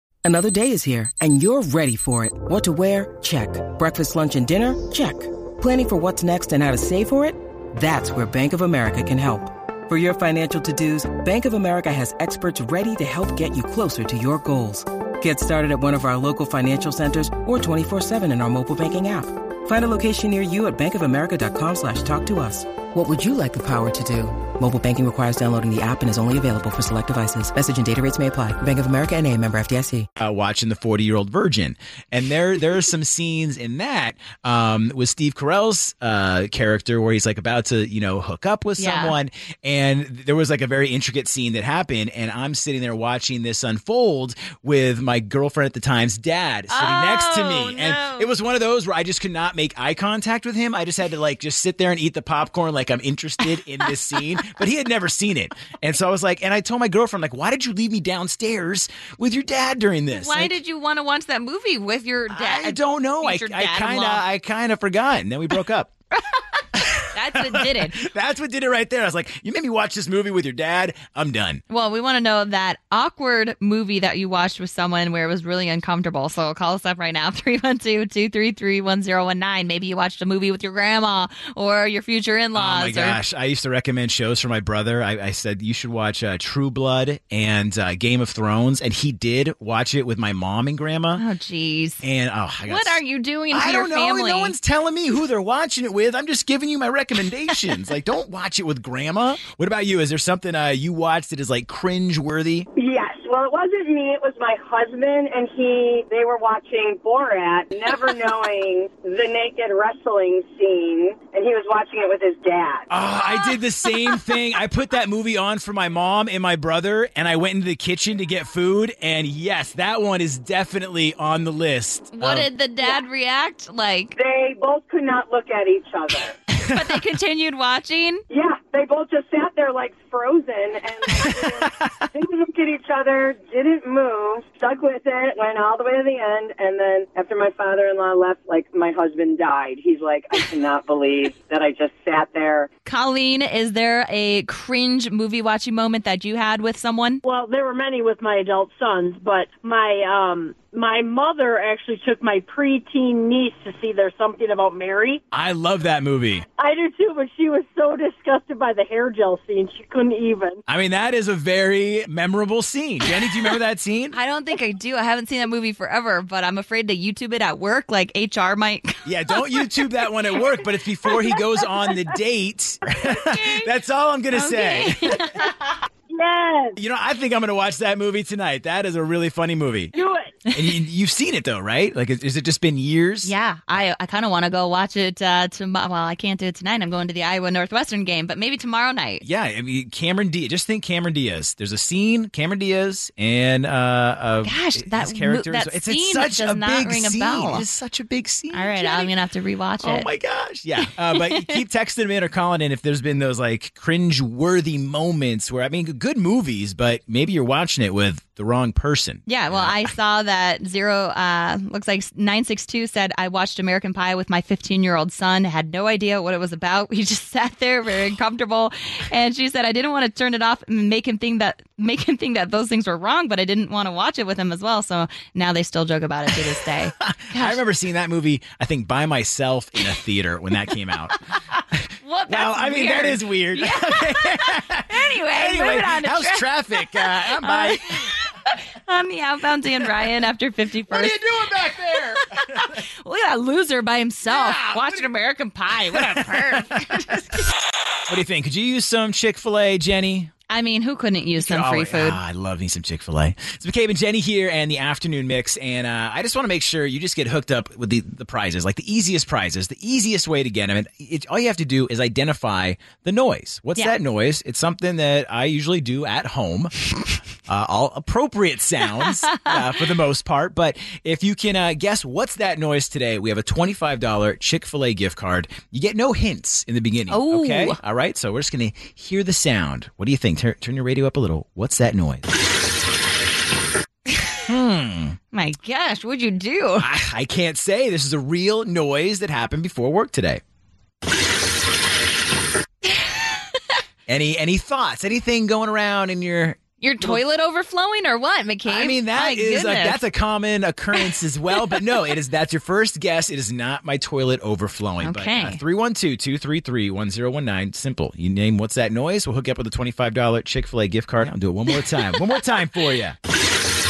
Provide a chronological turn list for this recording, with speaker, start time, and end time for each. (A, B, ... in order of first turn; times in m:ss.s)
0:00.2-0:30.0 A
0:30.2-1:00.6 B
0:38.8-0:39.2 C
0:46.7-0:48.3 C
1:00.1-1:04.2 C
1:02.3-1:05.9 B
1:06.3-1:06.6 C
1:06.7-1:11.6 B
1:07.1-1:08.0 C
1:11.7-1:23.2 C
1:22.5-1:31.2 B
1:31.2-1:32.0 C
1:32.0-1:42.7 B
1:32.6-1:34.6 C
1:42.8-1:52.9 D
1:52.9-2:02.5 B
1:53.3-1:54.4 C
2:02.1-2:04.2 C
2:04.2-2:06.3 D
2:06.6-2:08.2 C
2:08.3-2:22.7 D
2:11.1-2:11.9 B
2:22.8-2:27.2 C
2:27.3-2:35.2 E
2:35.3-2:36.4 B
2:36.6-2:40.6 E
2:40.7-2:44.2 B
2:44.1-2:49.7 C
2:49.0-2:55.2 B
2:53.0-2:53.7 C
2:54.3-2:55.7 C
2:56.1-2:56.8 D
2:56.8-2:59.9 B
2:59.9-3:00.3 D
3:00.5-3:03.3 B
3:03.2-3:09.2 C
3:09.2-3:19.1 B
3:14.4-3:17.6 C
3:18.5-3:20.1 C
3:19.8-3:29.8 B
3:21.1-3:21.6 C
3:29.3-3:47.6 C
3:47.0-3:51.2 B
3:51.7-3:58.1 B
3:52.0-4:07.4 C
4:00.9-4:02.8 B
4:04.2-4:05.0 B
4:06.0-4:06.6 B
4:08.1-4:10.3 B
4:10.5-4:12.2 C
4:11.4-4:26.7 B
4:27.5-4:42.2 B
4:37.1-4:37.8 C
4:44.1-4:44.4 C
4:44.4-4:45.2 B
4:45.3-4:46.8 C
4:46.8-4:50.4 B
4:52.8-4:53.4 C
4:54.1-4:57.2 B
4:56.8-5:00.0 C
4:58.6-5:13.2 B
5:05.0-5:05.6 C
5:11.8-5:12.4 C